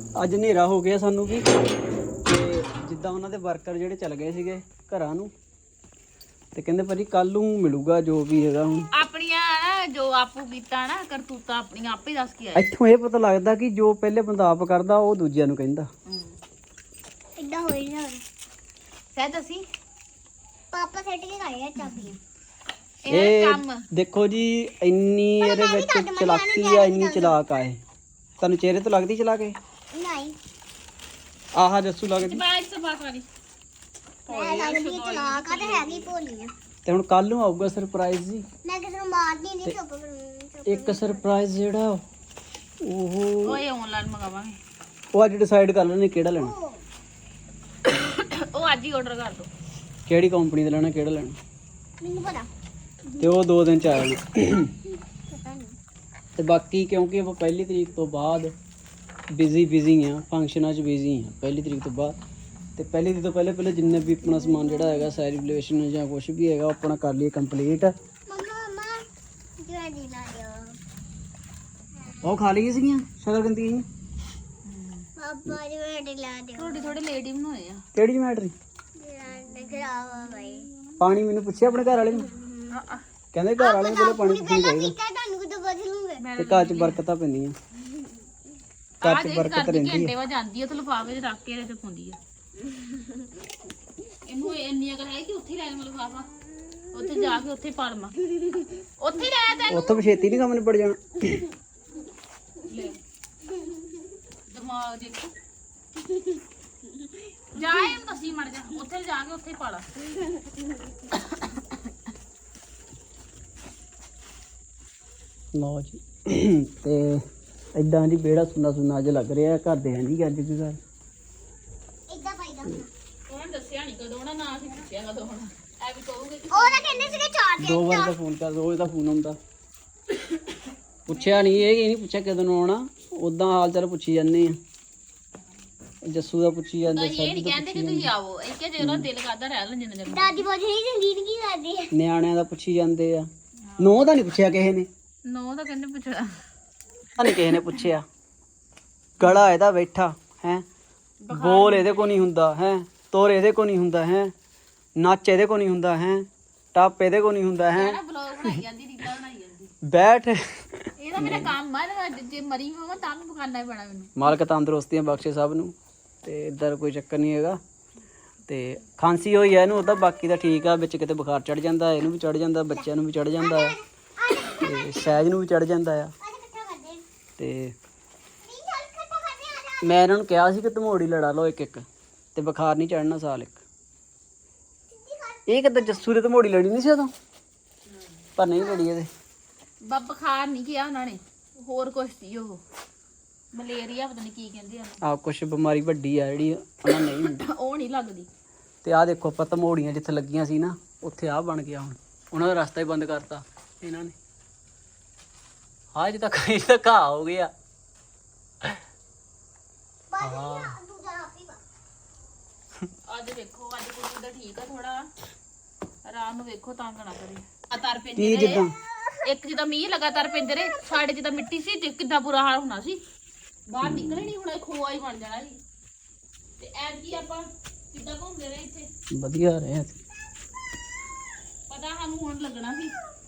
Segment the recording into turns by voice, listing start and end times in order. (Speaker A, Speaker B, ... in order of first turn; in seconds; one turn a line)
Speaker A: 0.2-1.5
Speaker A: 2.2-5.3
Speaker A: 6.5-8.9
Speaker B: 8.9-12.7
Speaker A: 12.5-15.9
Speaker B: 16.1-16.4
Speaker C: 17.4-18.2
Speaker B: 19.1-19.7
Speaker C: 20.7-22.2
Speaker B: 23.0-23.9
Speaker A: 23.1-27.8
Speaker C: 25.4-27.4
Speaker A: 28.4-29.6
Speaker C: 29.9-30.4
Speaker A: 31.5-32.4
Speaker B: 32.2-33.2
Speaker B: 34.2-36.1
Speaker C: 34.3-36.5
Speaker A: 36.9-38.4
Speaker C: 38.6-41.3
Speaker A: 40.7-42.0
Speaker A: 42.8-43.6
Speaker B: 43.4-44.6
Speaker A: 45.1-46.5
Speaker C: 46.4-46.8
Speaker B: 47.9-49.5
Speaker A: 50.1-51.4
Speaker C: 52.0-52.5
Speaker A: 53.2-54.7
Speaker C: 55.3-55.8
Speaker A: 56.4-58.5
Speaker A: 59.3-62.2
Speaker A: 62.8-67.9
Speaker C: 68.3-69.1
Speaker C: 69.6-70.8
Speaker A: 72.2-73.8
Speaker B: 74.6-75.1
Speaker C: 75.2-76.9
Speaker B: 76.5-77.8
Speaker A: 77.9-78.5
Speaker C: 79.0-80.7
Speaker A: 81.0-82.3
Speaker C: 82.1-82.6
Speaker B: 82.7-83.0
Speaker A: 83.3-84.9
Speaker C: 83.6-86.2
Speaker B: 86.2-87.0
Speaker A: 86.4-87.5
Speaker B: 89.0-92.2
Speaker A: 89.0-90.1
Speaker B: 94.2-96.3
Speaker B: 96.9-100.1
Speaker A: 99.7-101.4
Speaker B: 102.6-103.0
Speaker B: 104.5-105.3
Speaker B: 107.5-109.9
Speaker B: 111.3-111.8
Speaker A: 115.5-117.2
Speaker A: 117.7-120.8
Speaker C: 122.1-122.9
Speaker B: 123.3-127.3
Speaker C: 126.5-128.1
Speaker A: 127.6-129.4
Speaker B: 130.3-130.6
Speaker A: 131.1-134.6
Speaker B: 131.1-131.7
Speaker A: 136.0-138.1
Speaker B: 136.8-140.4
Speaker A: 138.8-139.1
Speaker C: 140.1-141.9
Speaker A: 141.9-143.3
Speaker B: 143.7-144.1
Speaker A: 143.8-144.9
Speaker B: 145.2-146.4
Speaker A: 147.2-148.0
Speaker B: 147.5-147.8
Speaker A: 149.2-150.6
Speaker B: 151.2-152.3
Speaker A: 151.3-154.3
Speaker A: 155.0-158.5
Speaker B: 157.7-159.7
Speaker A: 159.8-161.5
Speaker B: 161.0-164.3
Speaker A: 164.2-167.6
Speaker A: 168.5-173.8
Speaker C: 173.4-175.0
Speaker A: 174.6-176.1
Speaker C: 176.2-177.0
Speaker A: 177.4-177.7
Speaker C: 178.4-180.0
Speaker A: 179.8-183.6
Speaker C: 184.9-186.0
Speaker A: 185.5-187.1
Speaker A: 188.4-189.1
Speaker B: 189.8-192.6
Speaker B: 193.5-195.0
Speaker A: 195.0-197.4
Speaker B: 196.9-198.3
Speaker A: 198.8-204.1
Speaker A: 205.9-207.5
Speaker C: 210.1-211.6
Speaker A: 210.2-210.7
Speaker B: 213.1-215.1
Speaker B: 216.0-218.6
Speaker A: 218.2-218.7
Speaker B: 219.2-223.0
Speaker B: 223.7-225.6
Speaker A: 223.8-224.3
Speaker B: 226.6-228.9
Speaker A: 229.1-230.0
Speaker B: 231.7-232.9